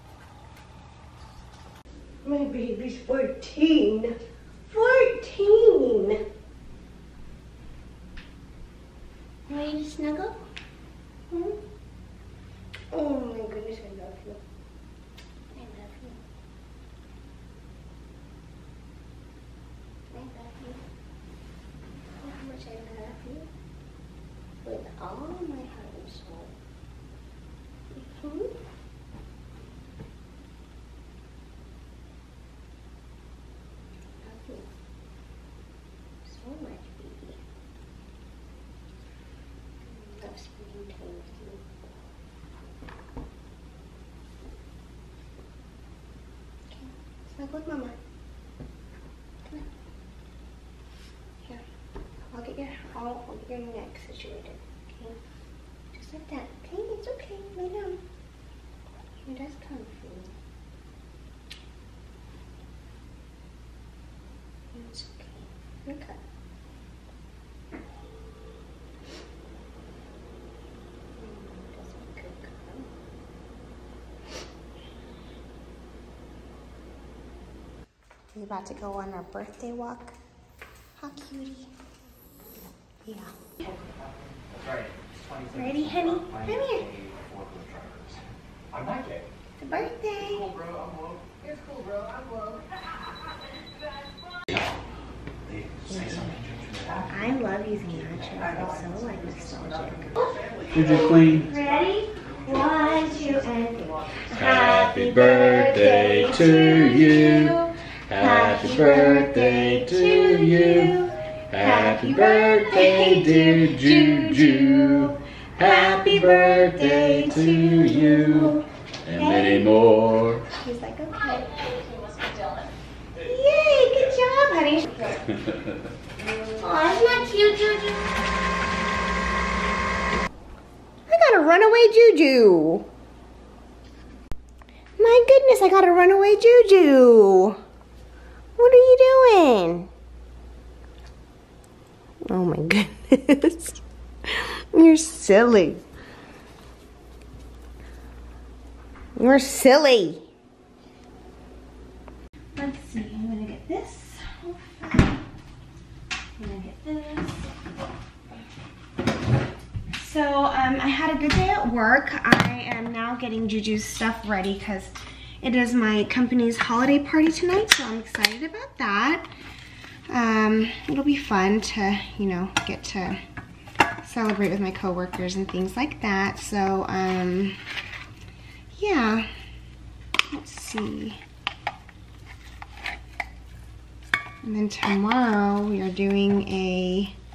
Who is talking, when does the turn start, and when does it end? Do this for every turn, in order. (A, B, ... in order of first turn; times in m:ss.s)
0:02.2-0:04.2 A
0:04.7-0:06.2 A
0:09.5-0:10.4 A
0:11.3-0:11.6 A
0:12.9-0:14.4 A
0:15.5-0:16.2 A
0:20.1-0:20.8 A
0:22.1-0:23.5 A
0:24.6-0:26.5 A
0:27.9-0:28.6 A
0:34.2-0:34.7 A
0:36.2-0:37.4 A
0:39.8-0:41.6 A
0:46.7-0:48.0 A
0:52.3-0:55.2 A
0:55.9-0:58.0 A
0:59.2-1:00.3 A
1:04.7-1:06.2 A
1:11.1-1:12.9 A
1:18.3-1:20.2 A
1:21.0-1:21.7 A
1:23.0-1:23.3 A
1:23.6-1:29.3 B
1:25.5-1:26.9 A
1:29.6-1:30.5 A
1:30.2-1:32.7 B
1:35.5-1:41.0 B
1:35.9-1:36.2 A
1:37.1-1:59.7 A
1:40.7-1:41.5 C
1:42.2-1:44.3 B
1:44.3-1:51.0 C
1:51.5-2:00.4 C
2:00.5-2:01.6 A
2:01.9-2:02.2 B
2:03.2-2:05.2 A
2:06.4-2:08.1 A
2:11.1-2:12.9 A
2:15.0-2:17.6 A
2:18.6-2:19.9 A
2:22.2-2:25.8 A
2:29.2-2:30.3 A
2:32.5-2:35.2 A
2:36.4-2:37.5 A
2:39.9-2:49.3 A
2:50.1-2:53.2 A
2:54.0-2:57.6 A
2:58.7-2:59.3 A
3:00.3-3:01.2 A
3:04.4-3:07.1 A